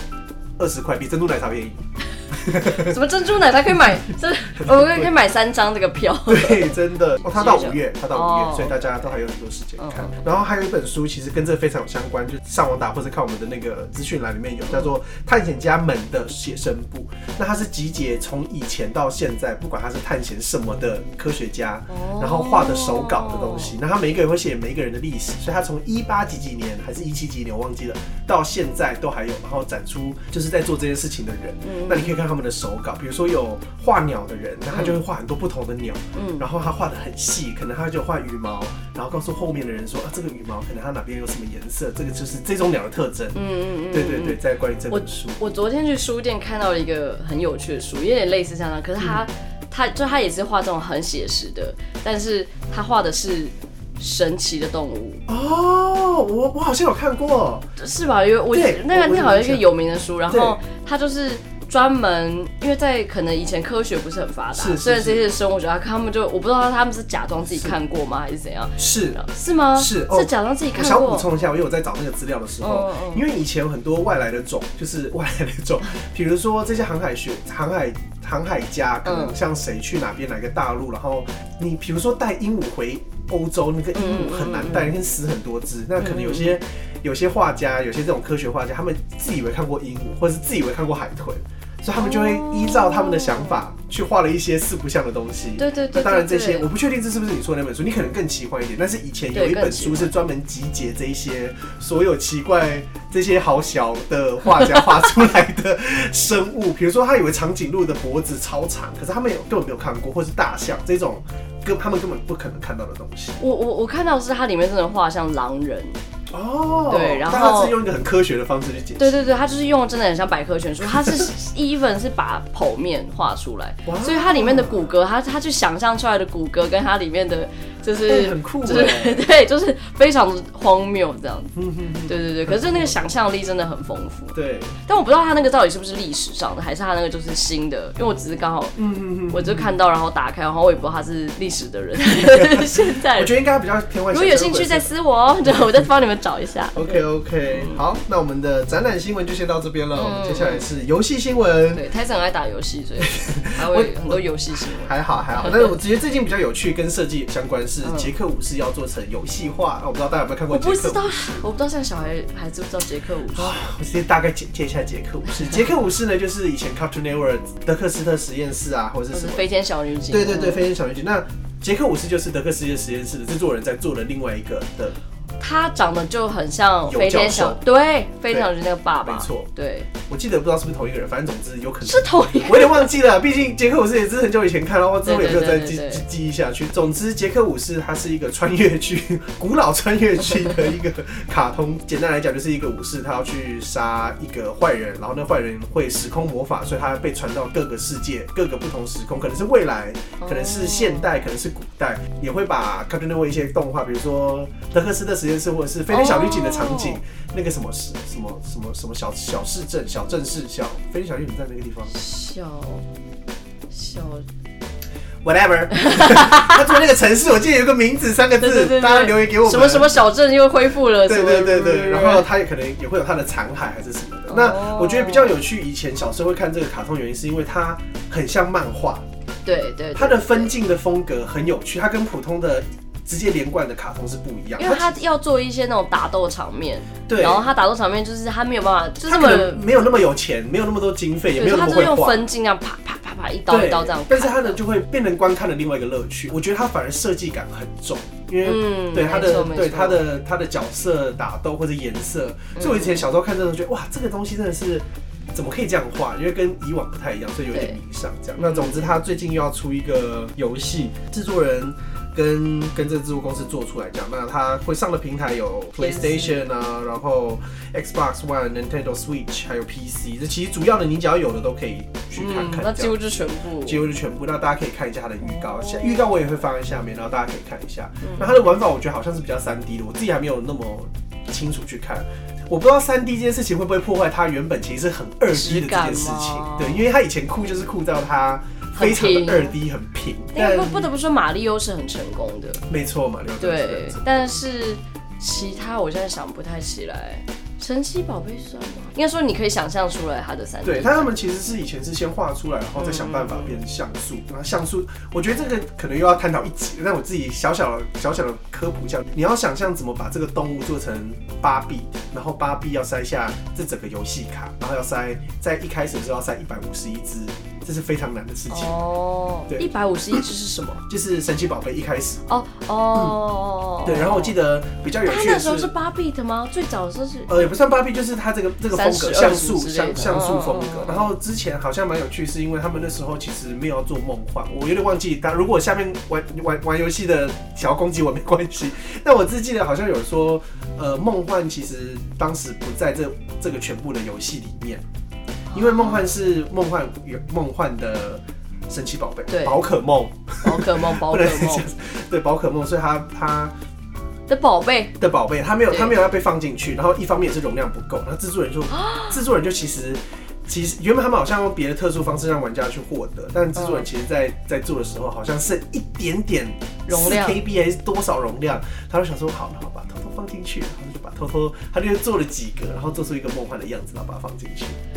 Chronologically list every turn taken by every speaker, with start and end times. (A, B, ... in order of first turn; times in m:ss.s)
0:00.6-0:03.0 A
0:02.5-0:06.8 B
0:04.6-0:05.1 A
0:06.3-0:43.4 A
0:07.3-0:09.2 B
0:09.8-0:10.2 B
0:21.9-0:23.7 B
0:31.6-0:32.2 B
0:34.7-0:35.0 B
0:36.1-0:36.5 B
0:43.3-0:44.4 B
0:43.9-0:45.4 A
0:44.9-0:55.2 B
0:55.3-0:57.7 A
0:57.8-1:11.3 B
0:58.5-0:59.7 A
1:00.3-1:00.6 A
1:04.6-1:05.3 A
1:07.5-1:07.8 A
1:08.8-1:09.2 A
1:09.8-1:53.4 A
1:12.6-1:13.2 B
1:19.0-1:19.3 B
1:23.9-1:25.0 B
1:26.0-1:26.6 B
1:32.0-1:33.6 B
1:35.6-1:36.7 B
1:39.3-1:40.1 B
1:53.4-1:56.0 B
1:56.3-1:59.4 A
1:56.9-1:57.8 B
1:59.0-2:14.3 B
2:00.9-2:01.3 A
2:03.9-2:04.9 A
2:08.0-2:09.3 A
2:11.6-2:13.0 A
2:14.3-2:14.8 A
2:14.8-2:18.8 B
2:18.8-2:19.8 A
2:19.3-2:23.3 B
2:22.3-2:24.9 A
2:24.1-2:27.8 B
2:26.7-2:31.8 A
2:30.0-2:30.7 B
2:31.7-2:35.8 B
2:33.0-2:41.4 A
2:37.8-2:38.1 B
2:40.5-2:43.7 B
2:43.3-2:49.5 A
2:49.1-2:50.7 B
2:50.1-2:55.0 A
2:55.4-2:59.9 B
2:56.9-2:57.6 A
2:59.0-2:59.5 A
3:00.0-3:31.9 A
3:01.8-3:02.9 B
3:05.0-3:06.0 B
3:20.2-3:21.1 B
3:25.9-3:27.0 B
3:31.9-3:32.8 B
3:33.7-3:34.2 B
3:35.2-3:40.0 A
3:35.7-3:36.8 B
3:38.4-3:42.3 B
3:41.0-3:49.0 A
3:44.3-3:45.4 B
3:49.4-3:50.5 B
3:49.9-3:55.0 A
3:54.6-3:59.8 B
3:57.1-3:57.5 A
3:59.0-4:02.2 A
4:01.4-4:04.6 B
4:03.5-4:33.0 A
4:08.4-4:10.1 B
4:12.6-4:13.1 B
4:17.5-4:17.8 B
4:18.4-4:18.8 B
4:25.8-4:26.4 B
4:32.2-4:33.9 B
4:33.6-4:50.9 A
4:35.2-4:36.2 B
4:38.0-4:38.4 B
4:45.3-4:46.9 B
4:48.8-4:49.6 B
4:50.3-4:52.6 B
4:52.7-4:54.0 A
4:53.4-5:01.1 B
5:00.6-5:18.7 A
5:02.8-5:03.5 B
5:18.5-5:20.8 B
5:19.5-5:20.2 A
5:20.9-5:22.3 A
5:22.3-5:24.4 B
5:23.8-5:25.7 A
5:25.0-5:27.6 B
5:27.3-5:44.8 A
5:28.7-5:31.1 B
5:45.5-5:46.0 B
5:45.5-5:53.5 A
5:49.3-5:49.6 B
5:50.4-5:51.7 B
5:54.3-5:55.0 B
5:55.0-6:14.8 A
5:58.8-5:59.1 B
6:03.6-6:03.9 B
6:06.9-6:07.4 B